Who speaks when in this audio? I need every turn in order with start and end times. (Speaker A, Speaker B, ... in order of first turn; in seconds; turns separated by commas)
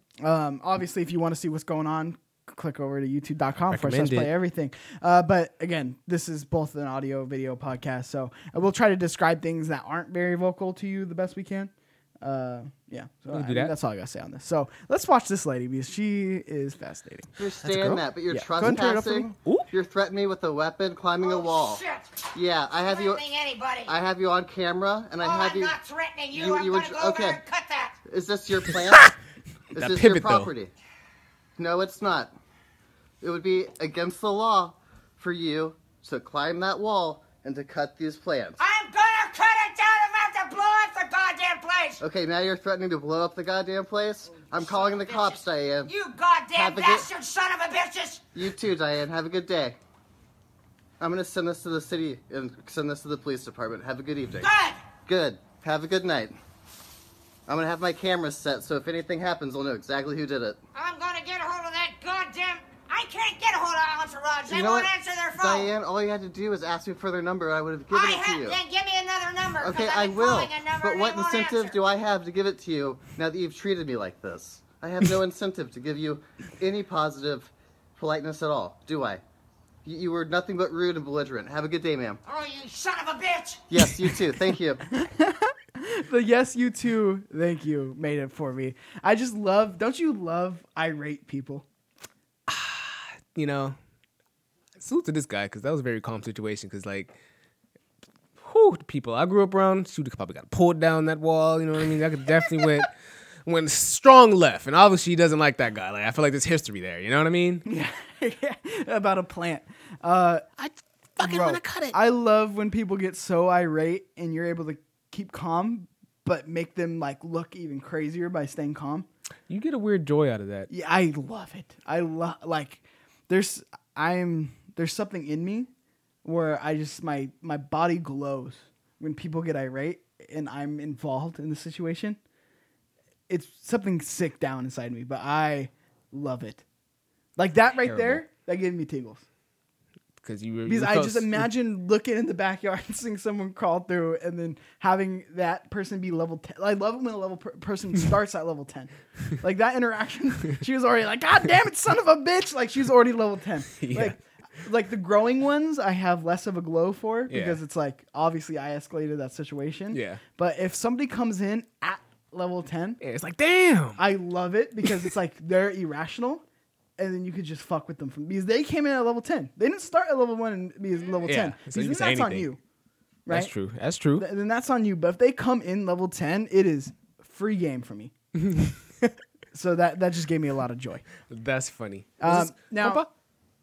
Speaker A: 0.2-17.3, Speaker B: 3.7-4.3, Speaker B: 13.3-13.7, Speaker C: 17.4-21.8, Speaker B: 17.6-18.0, Speaker A: 18.3-19.4, Speaker D: 21.2-22.1, Speaker C: 22.3-23.3, Speaker D: 22.9-23.9, Speaker C: 23.9-25.8, Speaker D: 25.2-27.9, Speaker C: 26.3-27.4, Speaker C: 28.1-29.1, Speaker B: 28.8-29.1, Speaker B: 29.7-30.5, Speaker C: 29.7-30.7, Speaker C: 31.6-32.3, Speaker C: 33.2-38.6, Speaker D: 38.6-42.0, Speaker C: 42.0-46.0, Speaker D: 44.5-48.3, Speaker C: 46.5-47.1, Speaker C: 48.3-49.8, Speaker C: 51.0-54.5, Speaker D: 54.4-54.9, Speaker C: 55.0-56.3, Speaker C: 57.5-60.6, Speaker D: 60.7-65.7, Speaker C: 64.5-68.6, Speaker D: 67.9-71.8, Speaker C: 69.6-79.2, Speaker C: 79.8-82.2, Speaker D: 82.3-83.6, Speaker C: 83.7-84.8, Speaker A: 84.9-91.6, Speaker B: 92.5-93.8, Speaker B: 94.8-97.1, Speaker B: 98.4-102.9, Speaker B: 103.5-107.6, Speaker A: 107.7-110.4, Speaker B: 110.6-112.0, Speaker A: 111.2-119.1, Speaker B: 119.5-120.7, Speaker A: 120.7-125.7, Speaker A: 126.2-132.2, Speaker A: 133.3-136.6, Speaker A: 137.4-139.2, Speaker B: 137.8-138.2, Speaker B: 140.2-141.5, Speaker A: 140.7-163.0, Speaker B: 153.8-154.2, Speaker B: 157.3-157.6, Speaker B: 159.9-160.2, Speaker B: 163.0-164.0, Speaker A: 164.0-166.4, Speaker A: 167.0-172.6, Speaker B: 171.2-172.5, Speaker A: 173.2-173.5, Speaker B: 173.3-174.2, Speaker A: 174.2-178.1, Speaker B: 178.4-179.1, Speaker A: 179.5-181.0, Speaker B: 181.3-183.1, Speaker A: 182.2-183.1